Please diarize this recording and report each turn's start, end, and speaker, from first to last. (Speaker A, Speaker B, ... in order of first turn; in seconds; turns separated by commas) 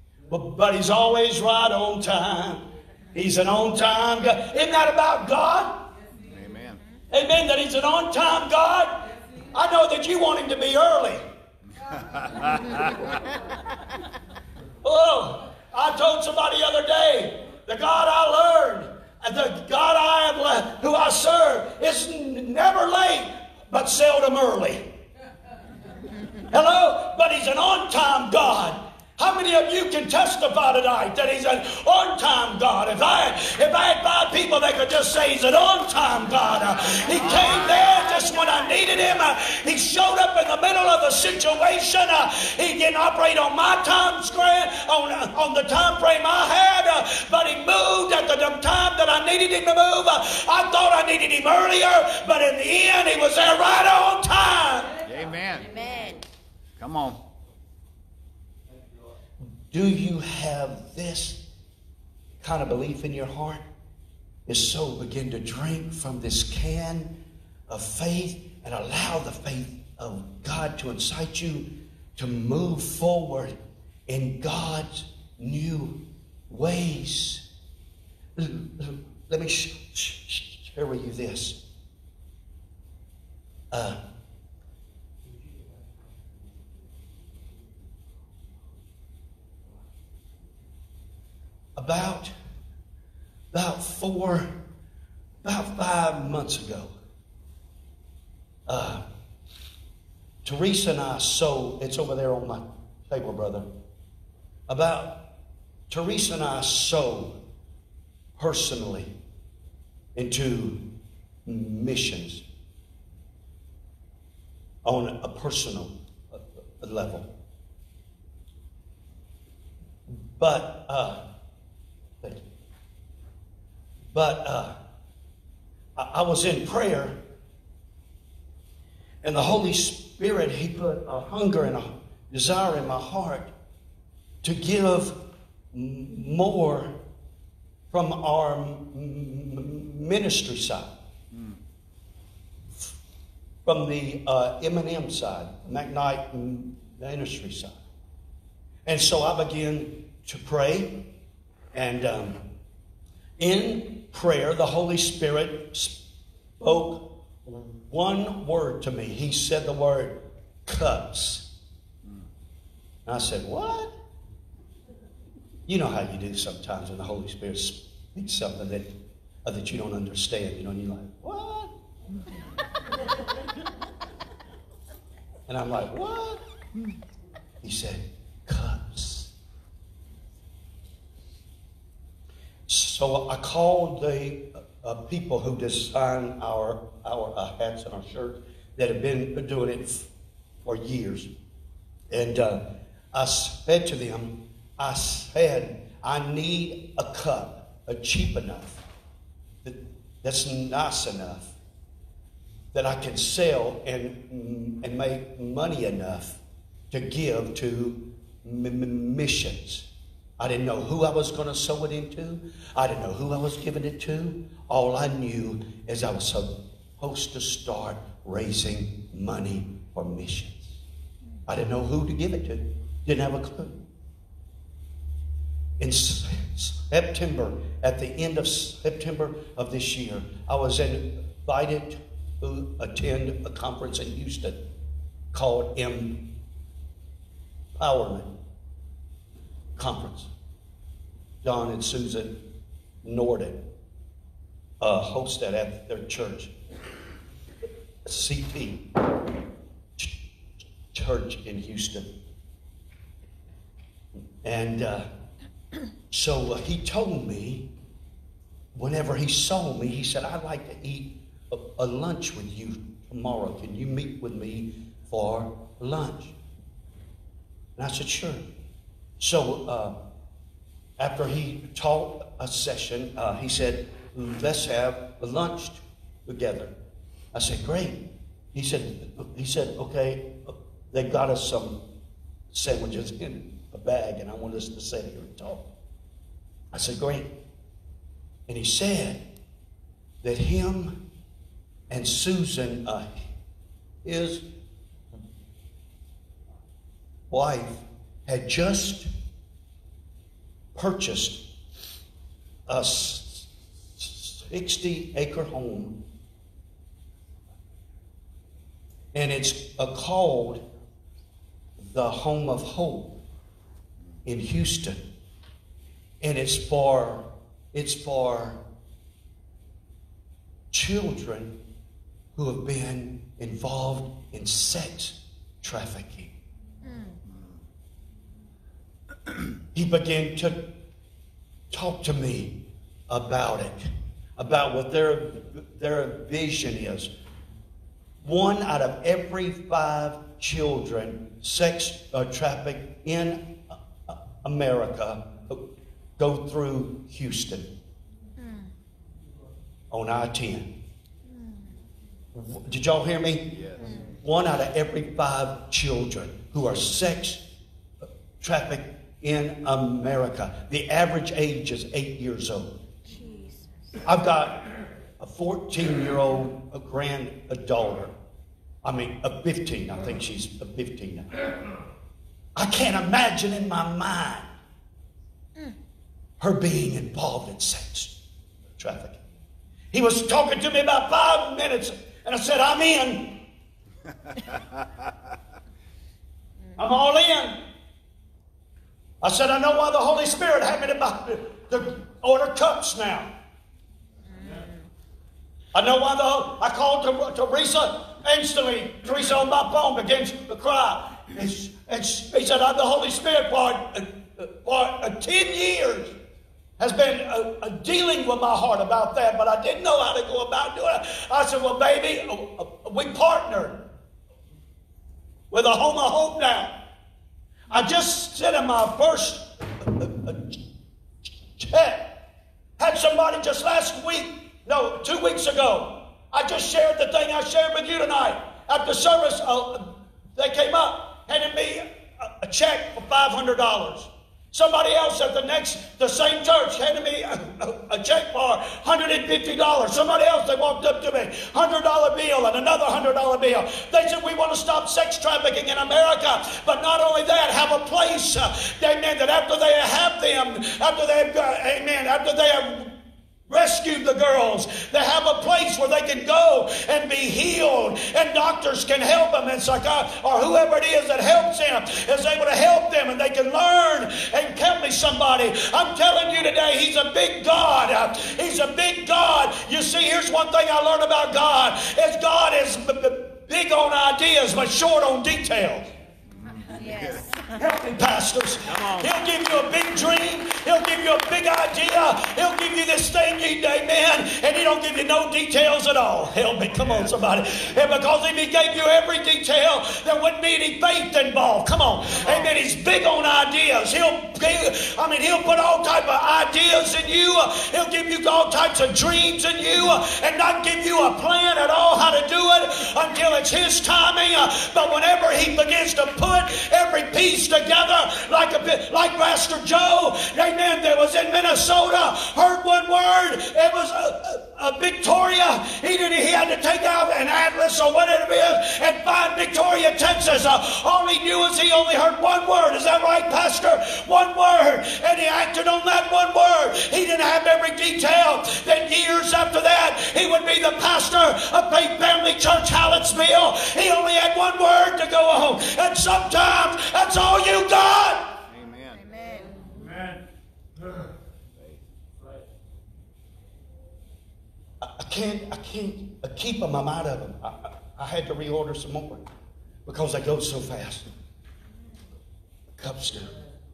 Speaker A: 0.3-5.7, Speaker B: 6.2-6.8, Speaker A: 7.1-11.2, Speaker B: 11.9-13.0, Speaker A: 14.8-24.9, Speaker A: 26.5-54.9, Speaker B: 55.0-55.7, Speaker C: 55.6-56.2, Speaker B: 56.8-57.2, Speaker A: 59.7-61.4, Speaker A: 62.4-63.6, Speaker A: 64.5-67.1, Speaker A: 67.7-73.5, Speaker A: 74.1-77.4, Speaker A: 78.4-81.6, Speaker A: 83.7-84.0, Speaker A: 91.8-92.3, Speaker A: 93.5-94.5, Speaker A: 95.4-96.9, Speaker A: 98.7-99.0, Speaker A: 100.4-103.7, Speaker A: 104.7-105.1, Speaker A: 105.9-107.4, Speaker A: 108.4-109.1, Speaker A: 110.1-110.8, Speaker A: 111.5-112.4, Speaker A: 114.8-117.3, Speaker A: 120.1-121.2, Speaker A: 124.1-124.7, Speaker A: 126.0-127.2, Speaker A: 129.2-133.5, Speaker A: 134.4-135.2, Speaker A: 135.7-136.9, Speaker A: 137.9-140.9, Speaker B: 141.3-141.6, Speaker A: 143.7-147.8, Speaker A: 148.9-151.0, Speaker A: 151.7-152.4, Speaker A: 153.4-156.0, Speaker A: 156.6-161.4, Speaker A: 163.1-163.9, Speaker A: 165.7-168.9, Speaker A: 169.4-171.7, Speaker A: 175.5-176.4, Speaker A: 177.6-179.3, Speaker A: 182.7-190.1, Speaker A: 190.6-191.3, Speaker A: 192.1-192.6, Speaker A: 193.1-198.8, Speaker A: 199.6-201.5, Speaker A: 202.7-209.8, Speaker A: 210.4-220.7, Speaker A: 221.5-223.8, Speaker A: 225.8-234.6, Speaker A: 235.3-236.2, Speaker A: 237.8-238.3, Speaker A: 239.8-240.3, Speaker A: 241.4-242.4, Speaker A: 243.0-243.6, Speaker A: 244.8-246.5, Speaker A: 248.1-248.8, Speaker A: 250.9-252.1, Speaker A: 254.4-255.1, Speaker A: 256.1-257.7, Speaker A: 258.7-266.3, Speaker A: 267.8-268.5, Speaker A: 269.2-269.9, Speaker A: 271.0-276.7, Speaker A: 277.3-278.0, Speaker A: 278.5-281.8, Speaker A: 282.5-285.6, Speaker A: 286.7-287.3, Speaker A: 288.5-289.2, Speaker A: 290.2-291.0, Speaker A: 291.9-293.2, Speaker A: 294.0-294.4, Speaker A: 297.3-299.1, Speaker A: 300.8-301.4, Speaker A: 302.7-306.0, Speaker A: 309.1-310.6, Speaker A: 311.8-313.1, Speaker A: 314.2-315.0, Speaker A: 316.2-318.6, Speaker A: 320.7-321.6, Speaker A: 322.4-326.3, Speaker C: 326.8-327.2, Speaker B: 327.2-327.6, Speaker A: 329.7-330.7, Speaker A: 331.7-332.5, Speaker A: 333.1-337.1, Speaker A: 338.2-345.6, Speaker A: 346.2-347.7, Speaker C: 348.4-348.7, Speaker A: 349.9-350.7, Speaker A: 352.3-357.4, Speaker B: 353.5-353.9, Speaker A: 358.4-362.7, Speaker C: 363.1-363.7, Speaker A: 364.1-364.6, Speaker A: 365.2-368.1, Speaker A: 368.8-371.4, Speaker A: 372.6-374.5, Speaker A: 376.4-378.1, Speaker A: 378.8-379.2, Speaker A: 379.9-383.4, Speaker A: 386.8-387.6, Speaker A: 389.2-393.3, Speaker C: 394.3-394.8, Speaker A: 395.7-406.1, Speaker A: 406.8-413.8, Speaker A: 415.5-416.7, Speaker A: 417.7-420.6, Speaker A: 421.6-422.2, Speaker A: 422.8-452.9, Speaker A: 453.5-475.9, Speaker B: 476.3-477.3, Speaker C: 476.7-477.4, Speaker A: 477.6-538.3, Speaker B: 478.6-479.2, Speaker B: 492.1-492.6, Speaker B: 538.5-539.0, Speaker C: 539.0-539.6, Speaker B: 541.5-541.8, Speaker A: 544.8-549.3, Speaker A: 549.9-551.1, Speaker A: 552.8-553.4